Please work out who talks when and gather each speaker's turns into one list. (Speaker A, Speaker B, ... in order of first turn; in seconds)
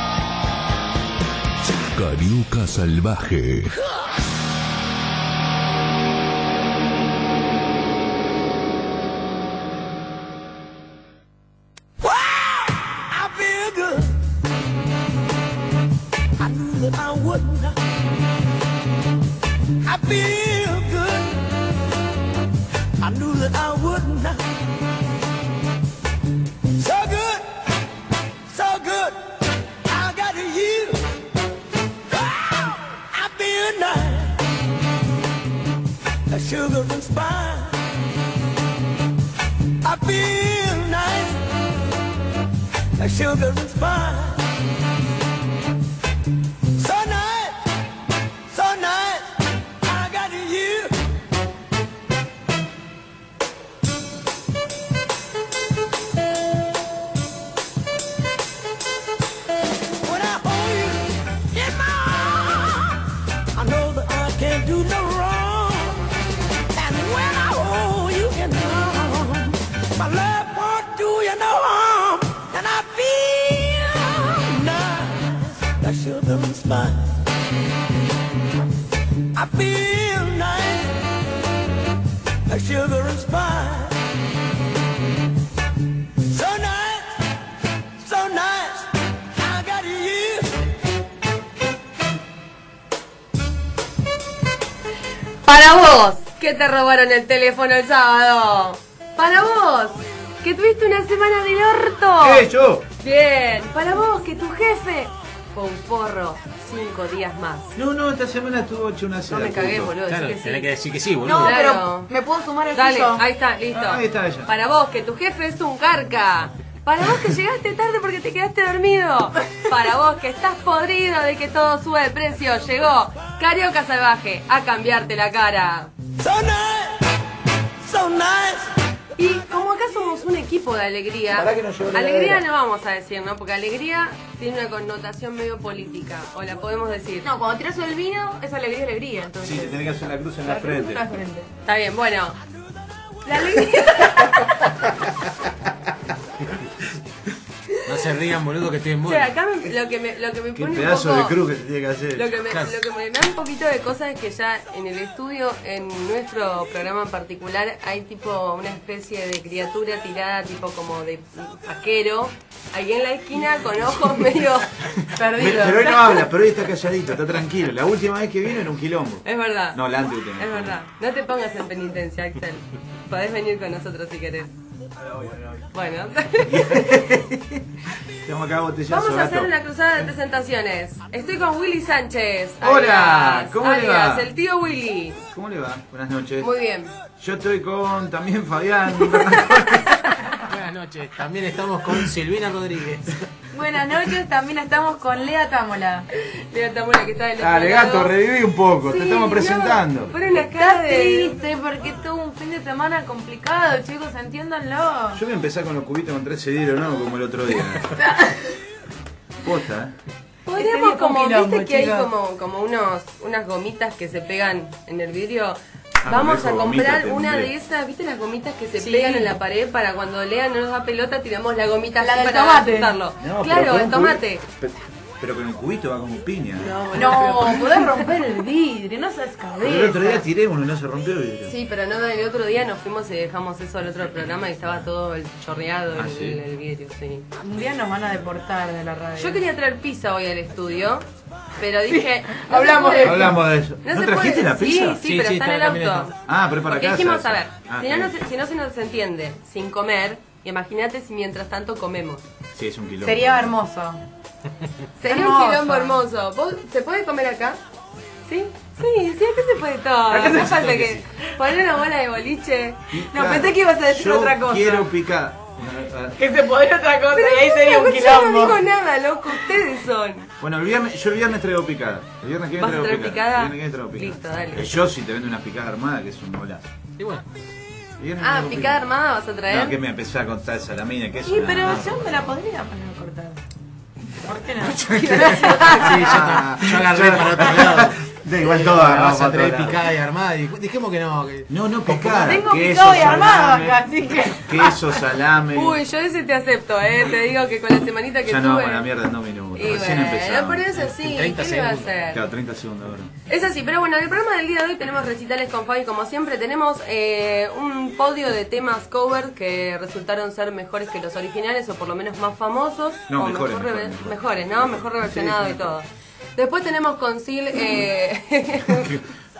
Speaker A: 1.6-3.7
Speaker B: 12.0-14.2, 16.4-17.8, 19.8-21.5, 23.0-24.4, 26.7-27.7, 28.5-31.1, 32.1-34.5, 36.3-37.8, 39.8-41.4, 43.0-44.5, 46.8-47.6, 48.5-51.0, 60.0-63.0, 63.5-66.1, 66.7-77.2, 79.3-81.0, 82.5-84.0, 86.2-87.2, 88.0-90.6, 126.2-127.0, 127.8-128.7
Speaker C: 95.5-102.5, 103.0-107.8, 109.3-110.7, 111.4-112.1, 112.7-125.9, 129.2-137.3, 141.6-142.4, 143.3-144.1, 149.0-151.4, 152.1-164.7, 169.2-174.5, 175.7-177.1, 178.9-185.2, 186.4-186.9, 196.2-198.1, 198.8-201.4, 210.5-224.4, 226.6-227.8, 231.4-237.2, 239.2-241.1, 241.6-252.2, 255.0-257.6, 258.3-263.0, 267.1-270.3, 272.6-274.8, 278.2-279.8, 284.9-285.9, 295.5-298.9, 299.5-302.2, 303.3-318.9
Speaker D: 102.2-102.9, 107.8-109.9, 113.7-114.5, 131.3-132.5, 139.4-141.0, 150.6-152.4, 165.2-170.8, 176.4-177.6, 178.2-179.5, 182.6-184.3, 185.3-186.5, 187.2-190.0, 197.4-200.1, 205.1-207.9, 209.4-209.9, 216.0-217.5, 223.2-227.4, 229.6-231.6, 235.9-236.4, 242.9-245.0, 246.2-248.1, 252.5-253.5, 262.9-266.2, 270.4-276.7, 278.0-278.9, 279.5-282.3, 284.7-289.8, 291.5-293.9, 294.4-295.8, 298.2-300.7, 302.1-303.1, 313.1-315.8, 318.6-319.1
Speaker E: 110.1-111.6, 147.8-149.3, 152.5-152.8, 190.4-193.2, 245.0-246.1, 260.2-261.0, 277.0-277.2, 285.8-291.5, 300.8-302.0
Speaker F: 111.2-113.2, 137.2-141.5, 143.2-144.5, 165.1-166.2, 193.5-196.1, 200.3-205.2, 207.9-208.5, 210.6-212.1, 218.8-219.4, 222.0-223.0, 226.9-230.2, 237.4-239.4, 241.9-243.4, 253.0-254.0, 255.0-256.0, 260.1-260.6, 263.1-264.9, 266.2-268.6, 281.2-283.4, 284.2-286.2, 291.9-295.0